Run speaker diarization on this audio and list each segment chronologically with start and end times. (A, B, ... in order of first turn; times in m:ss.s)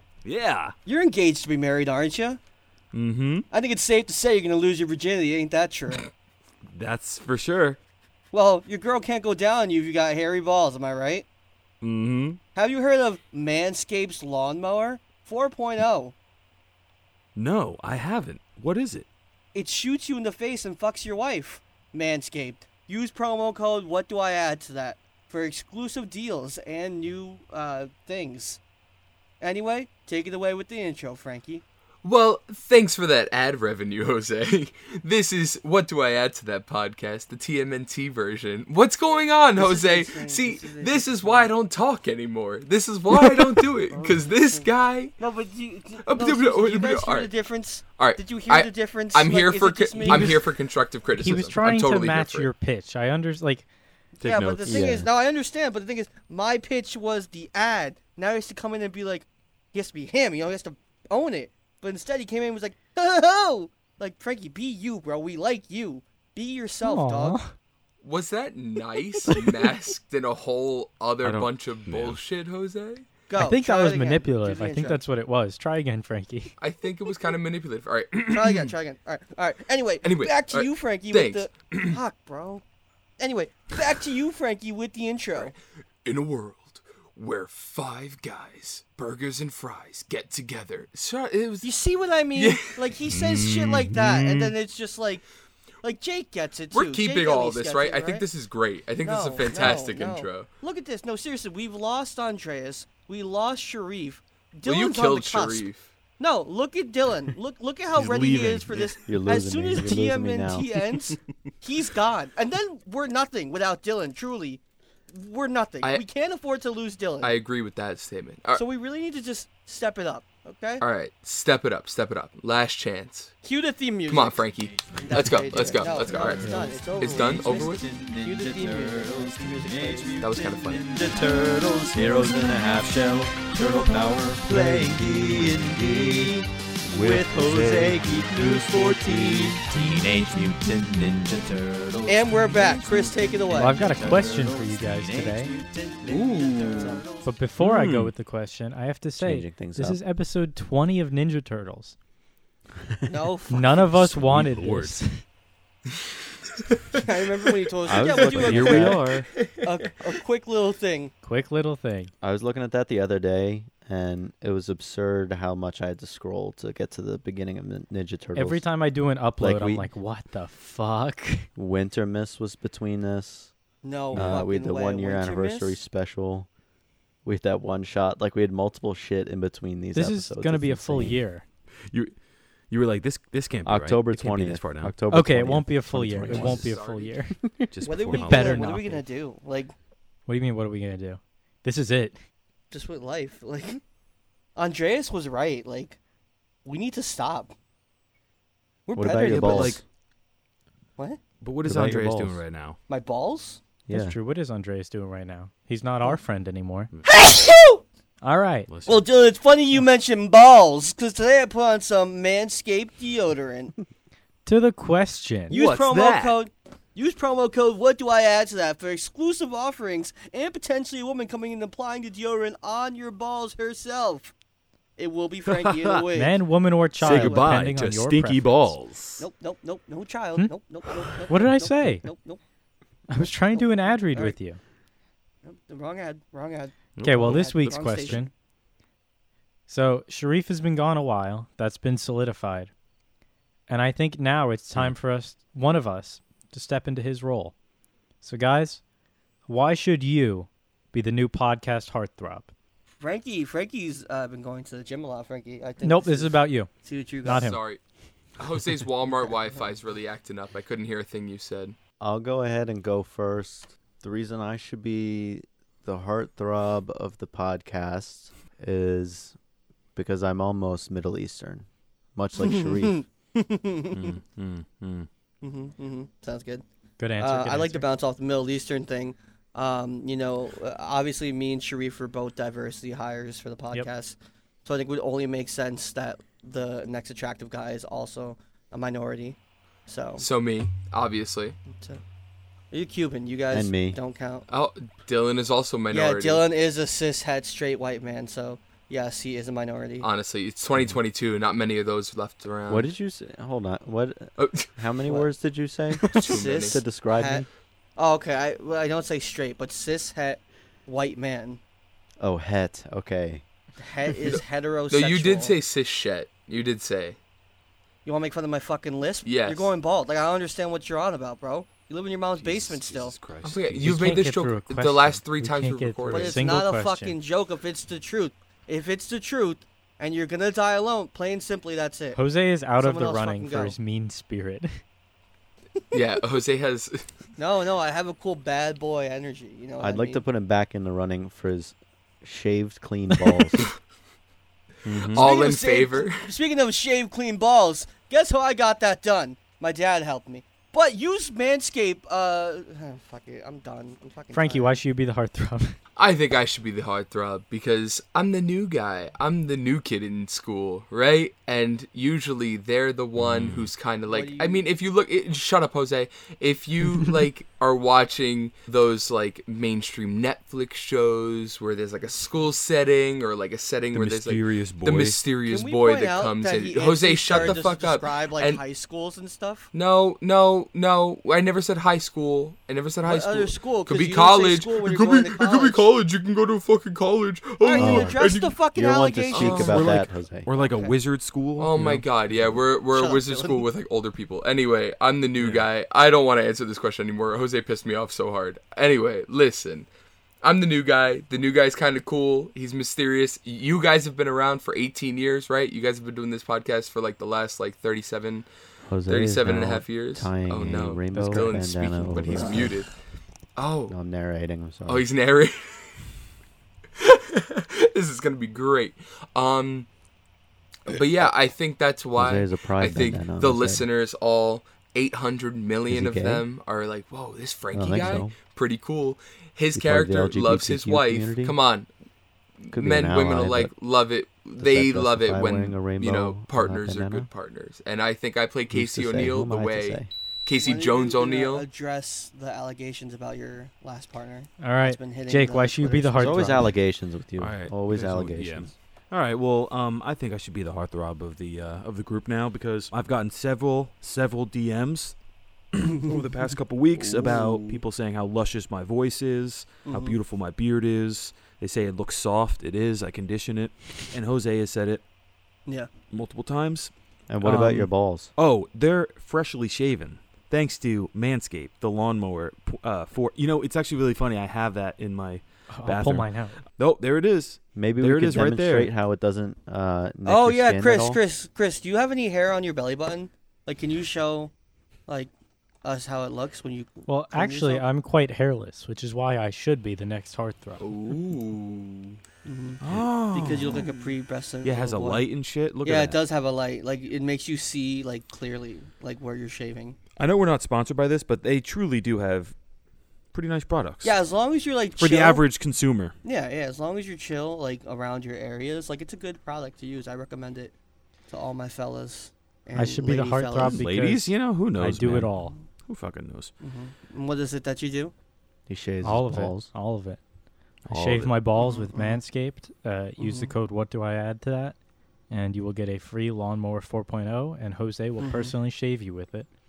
0:00.2-0:00.8 A
0:00.8-0:02.4 B
0:02.9-0:03.5 A
0:03.5-0:06.1 B
0:06.7-0:07.8 A
0:08.3-0:11.3 B
0:11.8-0:12.4 A
0:12.6-0:16.1 B
0:17.4-0:19.1 A
0:19.5-0:28.6 B
0:29.4-0:31.6 B
0:32.0-0:45.2 C
0:39.6-0:41.5 B
0:43.9-0:44.7 B
0:45.2-0:50.5 B
0:46.0-0:47.3 C
0:48.0-0:52.5 C
0:50.0-0:50.3 D
0:51.2-0:53.7 D
0:54.2-0:54.9 A
0:54.2-1:07.4 B
0:54.7-0:55.1 E
1:06.8-1:07.5 D
1:08.0-1:13.1 C
1:11.2-1:12.2 A
1:13.3-1:15.0 B
1:13.4-1:16.5 D
1:16.6-1:18.7 C
1:18.3-1:22.6 B
1:20.0-1:22.0 C
1:23.2-1:25.6 B
1:26.0-1:31.7 C
1:31.6-1:35.2 B
1:32.3-1:32.8 C
1:33.1-1:34.6 A
1:35.8-1:38.2 B
1:36.7-1:40.5 C
1:39.0-1:45.6 B
1:44.7-1:45.9 C
1:46.2-1:57.4 B
1:48.0-1:48.9 A
1:49.1-1:50.7 E
1:57.2-1:58.6 C
1:58.6-2:00.8 B
2:00.8-2:03.3 C
2:03.4-2:04.4 B
2:04.1-2:07.8 C
2:05.0-2:10.2 B
2:05.1-2:26.0 E
2:10.2-2:10.9 C
2:14.5-2:15.5 A
2:16.9-2:20.3 A
2:22.1-2:24.1 B
2:23.5-2:25.5 D
2:25.9-2:27.2 B
2:26.1-2:27.0 C
2:27.2-2:32.0 D
2:27.6-2:28.1 A
2:29.2-2:30.0 E
2:33.1-2:33.8 B
2:33.5-2:35.2 D
2:33.8-2:35.0 A
2:37.0-2:39.1 B
2:37.8-2:39.1 E
2:38.0-2:39.3 A
2:39.4-2:39.6 C
2:39.6-2:41.1 B
2:41.2-2:42.1 D
2:42.2-2:48.6 E
2:48.4-2:51.5 D
2:49.4-2:49.9 E
2:51.6-2:53.5 E
2:53.8-2:55.8 B
2:54.1-2:56.5 E
2:54.1-2:54.4 A
2:57.2-3:01.2 E
2:59.9-3:01.4 D
3:01.9-3:04.9 A
3:03.6-3:06.8 E
3:05.1-3:07.4 D
3:06.3-3:06.6 A
3:06.3-3:07.2 C
3:07.7-3:08.8 A
3:07.8-3:09.7 B
3:08.1-3:09.0 D
3:10.3-3:12.2 D
3:12.7-3:13.8 B
3:14.6-3:16.0 B
3:16.6-3:17.5 B
3:18.9-3:19.8 B
3:19.0-3:19.8 E
3:19.3-3:19.8 A
3:21.4-3:22.8 A
3:21.6-3:22.4 E
3:22.9-3:23.6 B
3:23.9-3:24.2 E
3:23.9-3:26.9 D
3:27.1-3:27.8 B
3:28.2-3:28.7 D
3:28.7-3:29.1 A
3:28.9-3:33.8 B
3:34.5-3:35.6 D
3:35.5-3:36.4 A
3:35.5-3:44.3 B
3:45.0-3:46.4 B
3:45.5-3:46.0 A
3:46.1-3:48.8 D
3:47.0-3:47.6 B
3:47.0-3:49.3 A
3:49.2-3:52.4 B
3:51.3-3:52.1 D
3:53.1-3:54.6 D
3:53.6-3:54.4 B
3:55.4-3:58.3 B
3:57.0-3:58.2 A
3:57.0-3:58.3 D
3:59.7-4:02.7 D
4:03.7-4:07.5 D
4:08.2-4:08.8 D
4:09.5-4:12.5 D
4:13.0-4:17.5 B
4:15.8-4:16.7 D
4:17.2-4:17.6 D
4:17.2-4:17.8 C
4:18.4-4:21.8 C
4:22.0-4:29.4 E
4:30.0-4:33.0 E
4:32.4-4:34.1 B
4:33.9-4:35.1 A
4:35.4-4:36.6 B
4:37.0-4:37.9 D
4:37.2-4:50.2 B
4:50.2-4:51.6 C
4:51.7-4:52.0 B
4:52.7-4:54.4 B
4:53.5-4:54.0 E
4:54.5-4:56.4 C
4:55.9-5:00.1 B
5:00.0-5:02.9 C
5:02.7-5:07.5 E
5:04.4-5:04.7 C
5:06.0-5:11.6 B
5:06.1-5:06.8 C
5:12.2-5:13.4 E
5:13.8-5:15.6 B
5:14.3-5:17.2 C
5:18.0-5:23.2 B
5:19.2-5:19.8 C
5:22.4-5:24.2 A
5:23.4-5:26.6 C
5:23.8-5:27.2 D
5:26.1-5:32.2 B
5:32.2-5:34.7 D
5:32.8-5:33.8 B
5:35.9-5:37.0 C
5:37.4-5:40.2 B
5:39.8-5:43.7 E
5:44.8-5:45.2 E
5:44.9-5:45.2 A
5:45.2-5:46.3 C
5:45.2-5:54.8 B
5:54.3-5:55.8 D
5:56.0-6:18.6 C
6:03.2-6:03.7 A
6:04.1-6:04.6 B
6:13.9-6:15.2 A
6:15.5-6:19.7 B
6:19.7-6:28.6 C
6:23.0-6:25.8 B
6:27.6-6:30.0 B
6:27.8-6:30.5 E
6:29.3-6:29.8 C
6:29.4-6:32.1 A
6:30.5-6:31.0 B
6:31.6-6:39.9 C
6:32.9-6:33.7 B
6:35.4-6:35.7 A
6:40.4-6:48.5 C
6:48.9-6:52.8 E
6:49.1-6:52.9 C
6:51.2-6:51.6 B
6:52.2-6:52.7 B
6:53.6-6:54.0 C
6:53.9-6:55.0 E
6:54.9-6:56.0 C
6:57.0-6:59.9 C
7:00.9-7:11.9 C
7:02.2-7:03.8 E
7:05.9-7:06.5 E
7:07.7-7:08.3 E
7:09.7-7:11.6 E
7:12.6-7:21.7 C
7:12.7-7:13.7 E
7:14.6-7:17.3 E
7:18.7-7:20.1 E
7:20.6-7:26.4 B
7:24.6-7:26.7 D
7:26.2-7:28.7 E
7:27.4-7:35.2 A
7:35.8-7:45.0 A
7:37.1-7:37.6 B
7:39.9-7:40.2 B
7:46.1-7:58.9 A
7:47.3-7:48.3 E
7:55.7-7:56.6 D
7:57.8-8:01.2 E
8:00.2-8:04.5 B
8:05.8-8:07.8 B
8:07.1-8:10.9 D
8:10.8-8:12.2 C
8:12.4-8:20.0 B
8:12.8-8:13.9 A
8:14.6-8:16.2 A
8:20.2-8:22.6 A
8:23.3-8:24.2 A
8:24.0-8:25.5 B
8:25.0-8:26.2 A
8:26.2-8:30.7 B
8:31.3-8:33.8 B
8:32.7-8:35.5 D
8:33.6-8:36.5 A
8:36.6-8:38.1 B
8:38.7-8:39.7 E
8:39.0-8:40.2 D
8:40.9-8:41.4 A
8:40.9-8:44.8 D
8:41.6-8:42.0 B
8:43.2-8:43.5 B
8:45.3-8:49.5 D
8:48.2-8:48.6 B